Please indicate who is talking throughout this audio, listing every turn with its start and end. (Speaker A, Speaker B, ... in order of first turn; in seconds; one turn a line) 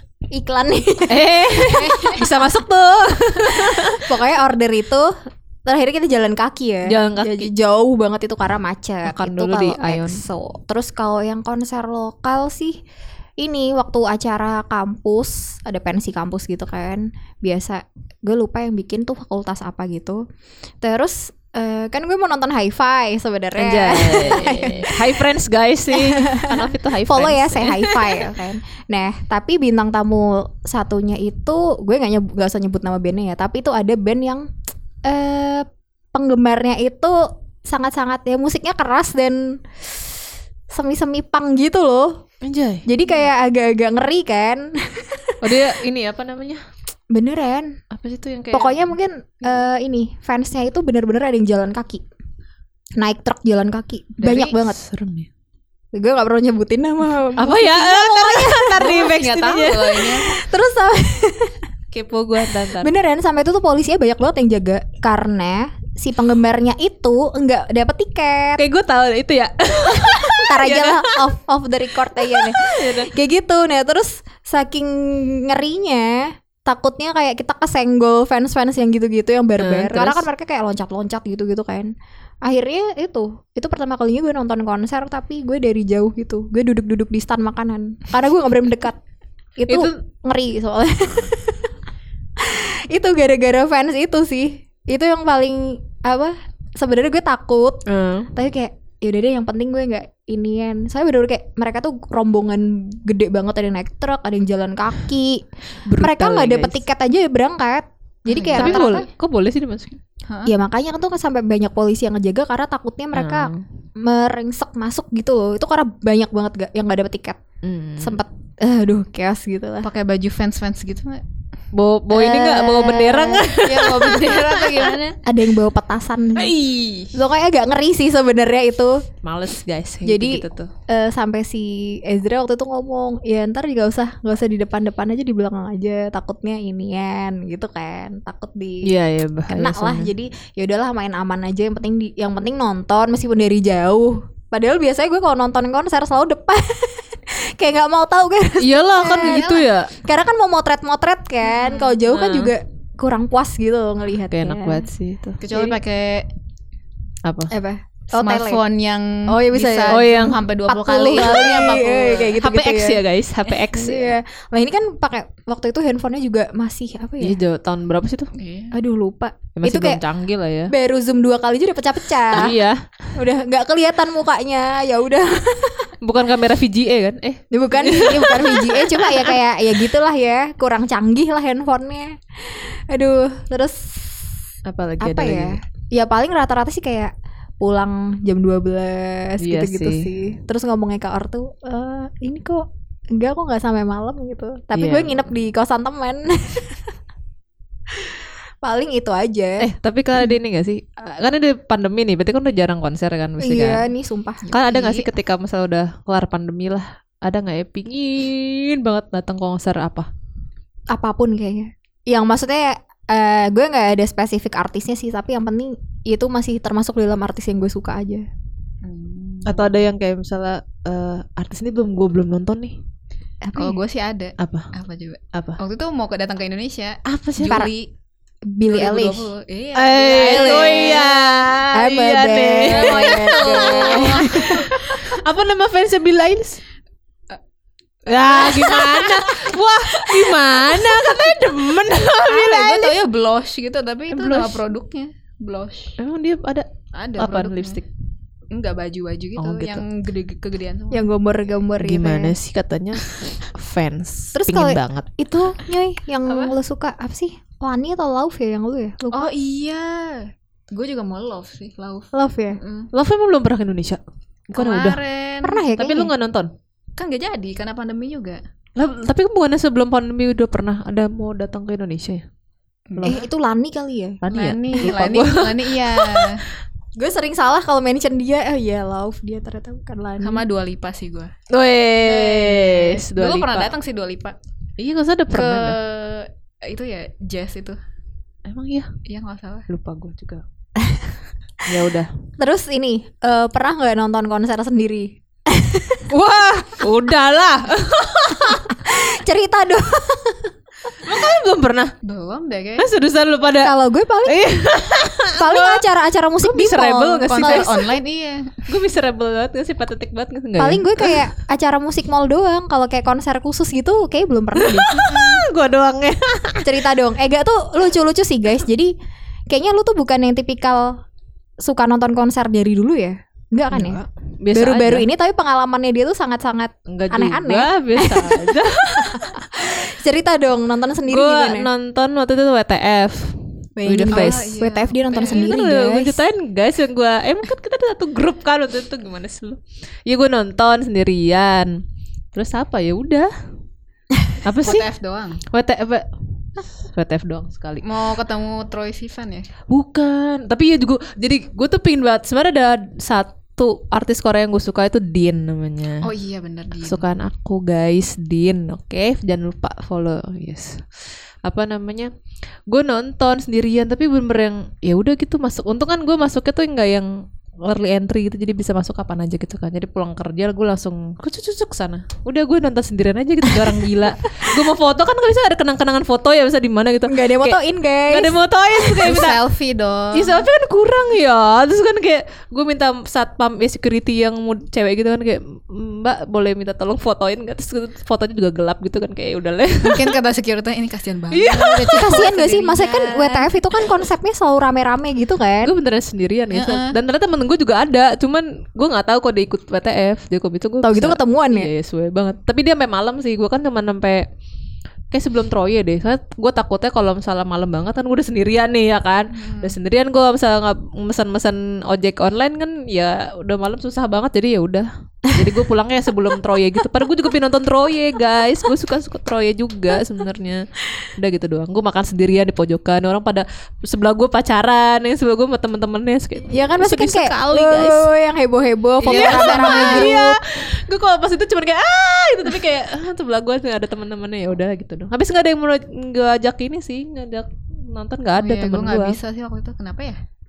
Speaker A: 0.3-2.2
Speaker B: 1.1-4.1
Speaker C: 1.9-2.2
Speaker A: 3.6-5.1
Speaker A: 5.7-12.8
Speaker B: 6.8-7.5
Speaker B: 9.1-10.2
Speaker A: 13.4-20.2
Speaker A: 20.8-25.2
Speaker B: 23.6-28.2
Speaker A: 25.9-34.5
Speaker A: 35.0-40.1
Speaker A: 40.7-42.2
Speaker B: 42.4-42.9
Speaker A: 42.9-45.6
Speaker B: 45.4-46.6
Speaker A: 47.1-47.8
Speaker B: 47.9-48.9
Speaker A: 48.5-52.0
Speaker A: 53.0-54.8
Speaker B: 54.2-55.3
Speaker A: 55.9-59.1
Speaker B: 57.4-60.2
Speaker C: 58.8-60.4
Speaker A: 60.2-61.6
Speaker B: 61.9-62.9
Speaker A: 62.8-68.6
Speaker B: 68.6-71.3
Speaker A: 69.9-81.9
Speaker B: 72.2-73.1
Speaker B: 79.6-80.3
Speaker A: 82.4-89.0
Speaker A: 89.6-91.7
Speaker B: 89.7-90.0
Speaker A: 92.4-109.1
Speaker B: 97.9-98.3
Speaker B: 105.8-106.8
Speaker C: 108.3-109.1
Speaker B: 108.5-110.0
Speaker C: 110.3-110.5
Speaker A: 110.5-117.4
Speaker B: 113.2-113.6
Speaker B: 117.6-118.2
Speaker A: 118.0-119.9
Speaker C: 119.8-121.2
Speaker B: 121.7-124.9
Speaker A: 122.1-123.5
Speaker C: 123.5-125.2
Speaker A: 125.2-126.5
Speaker B: 126.4-127.1
Speaker A: 127.1-129.0
Speaker B: 129.2-130.7
Speaker A: 130.1-138.9
Speaker B: 138.8-140.1
Speaker A: 139.5-154.9
Speaker B: 148.6-149.9
Speaker C: 149.2-149.7
Speaker C: 151.4-151.9
Speaker B: 152.1-152.5
Speaker B: 154.3-155.5
Speaker C: 155.4-156.3
Speaker B: 157.2-157.5
Speaker A: 157.5-158.6
Speaker C: 158.1-162.4
Speaker A: 159.3-160.1
Speaker B: 159.9-160.4
Speaker A: 160.7-163.0
Speaker B: 161.1-164.1
Speaker A: 163.7-167.4
Speaker B: 167.2-168.3
Speaker C: 168.4-168.8
Speaker A: 168.7-170.0
Speaker B: 169.6-170.7
Speaker A: 170.7-172.6
Speaker B: 172.3-172.8
Speaker A: 173.2-175.9
Speaker B: 176.0-179.3
Speaker A: 177.5-184.3
Speaker B: 184.7-185.6
Speaker A: 185.0-196.9
Speaker B: 189.4-190.3
Speaker B: 194.8-195.3
Speaker A: 197.9-199.7
Speaker B: 199.6-203.8
Speaker A: 203.4-204.5
Speaker B: 204.5-210.1
Speaker C: 204.6-205.1
Speaker A: 210.9-218.3
Speaker C: 218.8-219.7
Speaker B: 219.5-222.8
Speaker A: 223.4-223.8
Speaker C: 223.6-227.9
Speaker B: 224.4-224.7
Speaker B: 225.3-225.6
Speaker B: 227.1-227.6
Speaker A: 228.5-229.3
Speaker C: 228.7-231.5
Speaker B: 229.8-236.6
Speaker A: 230.3-231.1
Speaker A: 231.7-234.7
Speaker C: 232.7-235.0
Speaker B: 238.1-243.0
Speaker C: 238.2-241.3
Speaker C: 242.3-246.0
Speaker B: 244.1-244.6
Speaker B: 246.0-247.9
Speaker C: 246.9-247.8
Speaker C: 248.5-251.1
Speaker B: 249.4-249.8
Speaker A: 250.9-252.3
Speaker B: 251.8-255.1
Speaker A: 254.3-259.3
Speaker C: 256.3-256.5
Speaker C: 259.1-262.9
Speaker A: 262.1-262.6
Speaker B: 262.9-265.0
Speaker C: 264.6-265.6
Speaker A: 265.4-266.1
Speaker B: 265.8-266.5
Speaker C: 267.0-268.4
Speaker B: 268.8-272.2
Speaker C: 272.9-273.2
Speaker A: 273.0-274.2
Speaker B: 274.2-276.3
Speaker C: 274.3-276.4
Speaker A: 277.0-280.4
Speaker C: 280.2-281.3
Speaker B: 281.5-283.7
Speaker C: 282.0-284.4
Speaker B: 284.8-285.8
Speaker C: 285.3-287.8
Speaker B: 288.5-288.9
Speaker C: 289.1-289.7
Speaker B: 289.7-290.4
Speaker A: 290.8-291.1
Speaker B: 291.6-292.1
Speaker A: 292.4-296.1
Speaker B: 296.1-298.7
Speaker A: 298.5-300.5
Speaker B: 301.0-301.9
Speaker C: 302.0-302.9
Speaker B: 302.8-303.7
Speaker A: 303.6-304.5
Speaker B: 304.2-305.8
Speaker A: 305.3-307.8
Speaker B: 306.4-307.8
Speaker C: 307.3-308.6
Speaker B: 308.7-311.3
Speaker A: 310.6-315.1
Speaker B: 314.6-316.7
Speaker C: 315.1-315.4
Speaker A: 316.6-318.9
Speaker A: 319.5-321.0
Speaker A: 321.6-324.0
Speaker B: 323.7-325.1
Speaker A: 324.5-331.7
Speaker B: 326.9-329.4
Speaker B: 331.1-334.5
Speaker A: 333.8-336.2
Speaker C: 334.1-335.5
Speaker B: 335.2-341.8
Speaker B: 342.3-343.3
Speaker B: 344.4-344.9
Speaker C: 344.6-345.4
Speaker B: 345.5-346.1
Speaker B: 346.7-347.9
Speaker C: 347.8-349.5
Speaker B: 349.7-356.1
Speaker C: 356.0-357.1
Speaker B: 356.8-362.1
Speaker B: 362.7-379.4
Speaker A: 377.1-378.4
Speaker C: 379.0-380.5
Speaker B: 380.1-390.1
Speaker C: 389.8-393.6
Speaker B: 391.3-392.1
Speaker A: 392.0-395.7
Speaker B: 395.6-404.3
Speaker C: 396.5-397.0
Speaker A: 400.8-401.7
Speaker B: 405.1-420.7
Speaker C: 409.3-409.8
Speaker B: 421.2-428.1
Speaker A: 426.5-430.4
Speaker B: 429.0-439.2
Speaker C: 429.0-430.1
Speaker C: 438.4-440.2